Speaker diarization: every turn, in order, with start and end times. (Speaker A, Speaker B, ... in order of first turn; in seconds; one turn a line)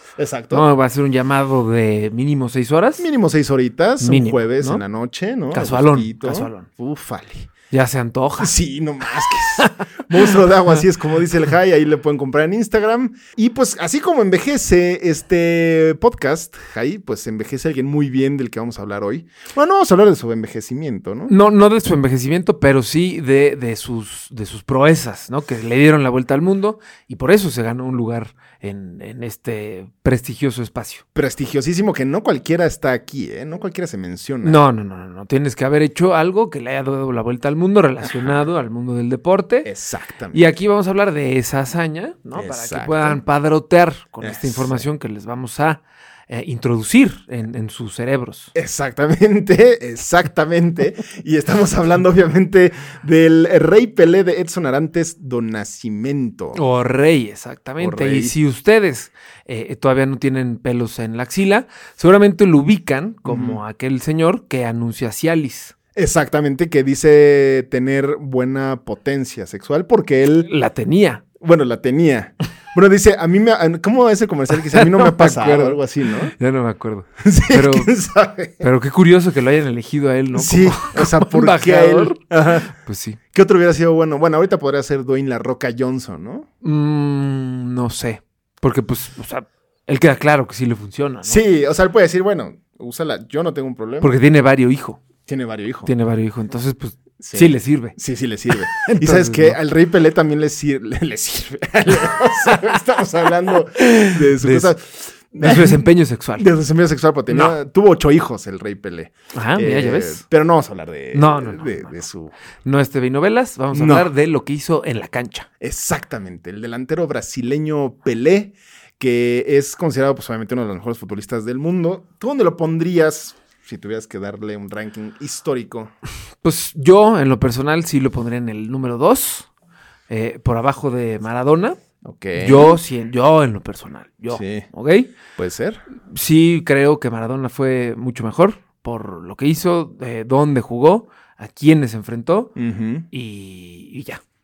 Speaker A: 0.2-0.7
Speaker B: 0.5-3.1
Speaker A: 3.0-7.5
Speaker B: 4.0-4.8
Speaker B: 5.5-6.7
Speaker B: 7.7-8.6
Speaker A: 8.4-21.3
Speaker B: 9.6-10.3
Speaker B: 21.3-31.0
Speaker A: 31.1-34.6
Speaker B: 34.4-39.7
Speaker A: 39.6-40.5
Speaker B: 40.3-48.5
Speaker A: 42.4-43.2
Speaker A: 44.2-44.8
Speaker A: 48.5-56.6
Speaker B: 56.5-65.7
Speaker A: 57.8-58.4
Speaker A: 63.2-63.6
Speaker A: 66.0-70.5
Speaker B: 70.5-71.2
Speaker A: 71.4-76.3
Speaker B: 74.7-77.9
Speaker A: 77.2-78.7
Speaker B: 78.6-82.2
Speaker A: 80.3-82.7
Speaker B: 82.7-83.2
Speaker A: 83.3-86.5
Speaker B: 86.6-91.4
Speaker A: 91.3-94.2
Speaker B: 94.0-95.0
Speaker A: 95.3-95.9
Speaker B: 95.9-98.0
Speaker A: 97.2-105.9
Speaker B: 98.7-99.6
Speaker B: 103.8-104.7
Speaker B: 105.4-106.5
Speaker A: 106.4-112.3
Speaker B: 107.3-107.6
Speaker B: 109.3-110.2
Speaker B: 111.1-111.9
Speaker B: 112.7-115.5
Speaker A: 113.7-114.1
Speaker A: 115.6-125.9
Speaker B: 126.4-129.5
Speaker B: 130.1-131.8
Speaker A: 132.0-132.8
Speaker B: 132.3-135.1
Speaker A: 134.3-134.7
Speaker A: 135.4-135.8
Speaker B: 136.1-142.5
Speaker A: 142.6-143.1
Speaker B: 143.1-144.2